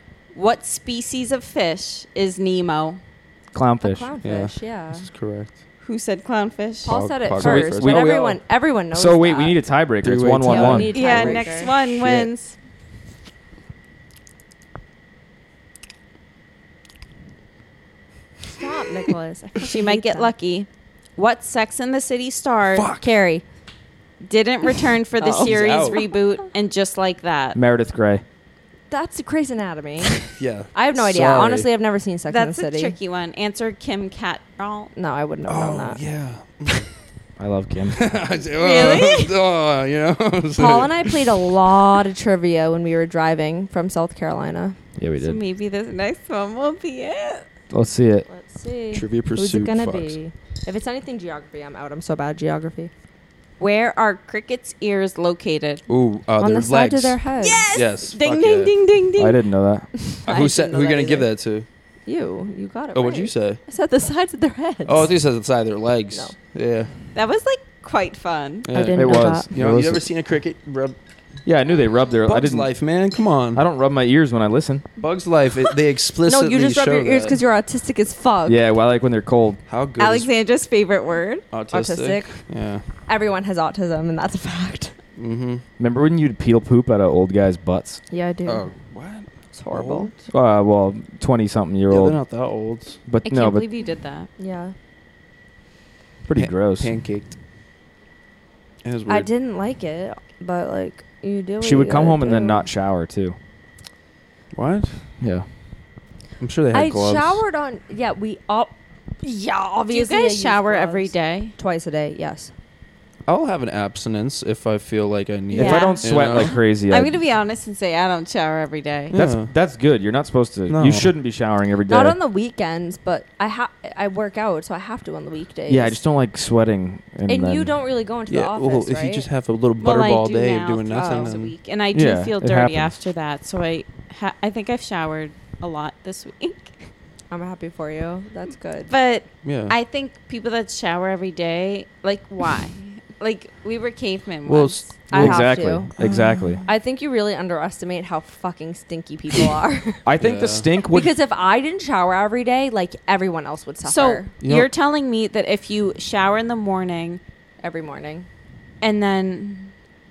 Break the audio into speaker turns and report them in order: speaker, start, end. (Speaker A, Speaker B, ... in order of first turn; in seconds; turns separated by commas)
Speaker A: 0.3-3.0, Speaker B: 3.5-4.1, Speaker C: 3.8-5.1, Speaker D: 4.2-5.5, Speaker A: 5.8-7.0, Speaker C: 6.8-9.6, Speaker D: 6.9-8.3, Speaker B: 7.4-8.4, Speaker B: 8.9-11.0, Speaker D: 10.0-12.3, Speaker C: 10.5-11.7, Speaker A: 10.9-12.5, Speaker C: 18.5-20.3, Speaker A: 19.6-22.9, Speaker D: 22.7-23.1, Speaker C: 23.0-23.4, Speaker A: 24.2-27.6, Speaker C: 25.2-26.0, Speaker D: 25.4-26.0, Speaker B: 27.6-28.2, Speaker C: 28.9-33.0, Speaker D: 30.3-31.7, Speaker A: 32.3-34.9, Speaker C: 35.0-36.0, Speaker D: 35.5-36.9, Speaker B: 37.4-38.0, Speaker D: 37.9-41.2, Speaker A: 38.6-39.4, Speaker C: 40.6-44.8, Speaker B: 45.0-45.4, Speaker A: 45.2-47.5, Speaker B: 47.7-48.3, Speaker C: 48.3-52.9, Speaker D: 48.9-50.2, Speaker A: 53.6-55.8, Speaker D: 55.9-57.2, Speaker C: 56.4-57.7, Speaker A: 57.4-59.4, Speaker D: 57.7-58.7, Speaker B: 59.2-59.9, Speaker C: 60.0-61.3, Speaker D: 60.3-61.7, Speaker A: 60.3-61.2, Speaker C: 62.1-65.1, Speaker D: 62.9-63.6, Speaker D: 64.8-66.9, Speaker A: 67.2-68.7, Speaker C: 68.7-69.5, Speaker D: 68.7-71.0, Speaker B: 68.9-70.1, Speaker B: 71.5-72.7, Speaker D: 72.3-73.6, Speaker B: 73.5-74.8, Speaker D: 75.0-77.4, Speaker C: 76.2-78.6, Speaker B: 78.5-79.6, Speaker D: 79.7-80.3, Speaker A: 80.0-81.5, Speaker D: 81.5-82.8, Speaker C: 81.7-82.4, Speaker C: 83.1-85.0, Speaker D: 85.2-85.6, Speaker B: 85.8-88.0, Speaker C: 88.1-88.7, Speaker D: 88.5-90.2, Speaker C: 89.5-90.1, Speaker B: 90.3-92.2, Speaker D: 91.9-93.0, Speaker B: 93.1-93.7, Speaker A: 93.3-94.3, Speaker C: 94.4-94.8, Speaker B: 96.3-96.9, Speaker D: 96.3-97.3, Speaker D: 98.8-99.3, Speaker C: 99.1-102.7, Speaker B: 101.6-103.4, Speaker D: 104.5-105.0, Speaker B: 105.2-105.5, Speaker D: 106.4-107.4, Speaker C: 106.7-112.5, Speaker A: 109.9-111.5, Speaker D: 113.3-116.6, Speaker A: 115.5-119.2, Speaker B: 115.6-117.2, Speaker D: 119.1-119.5, Speaker B: 119.1-122.2, Speaker D: 120.7-121.1, Speaker C: 121.9-126.0, Speaker B: 125.7-127.7, Speaker C: 127.3-129.3, Speaker D: 128.3-131.6, Speaker A: 129.8-136.9, Speaker C: 130.9-131.3, Speaker B: 131.9-132.9, Speaker C: 137.3-138.9, Speaker A: 138.9-144.9, Speaker D: 139.4-139.8, Speaker D: 144.5-146.6, Speaker C: 145.1-145.9, Speaker B: 145.1-146.6, Speaker C: 146.7-150.0, Speaker B: 150.1-151.2, Speaker D: 150.2-150.7, Speaker C: 150.9-154.3, Speaker A: 153.8-157.2, Speaker D: 154.4-154.7, Speaker C: 157.6-158.3, Speaker A: 158.8-159.7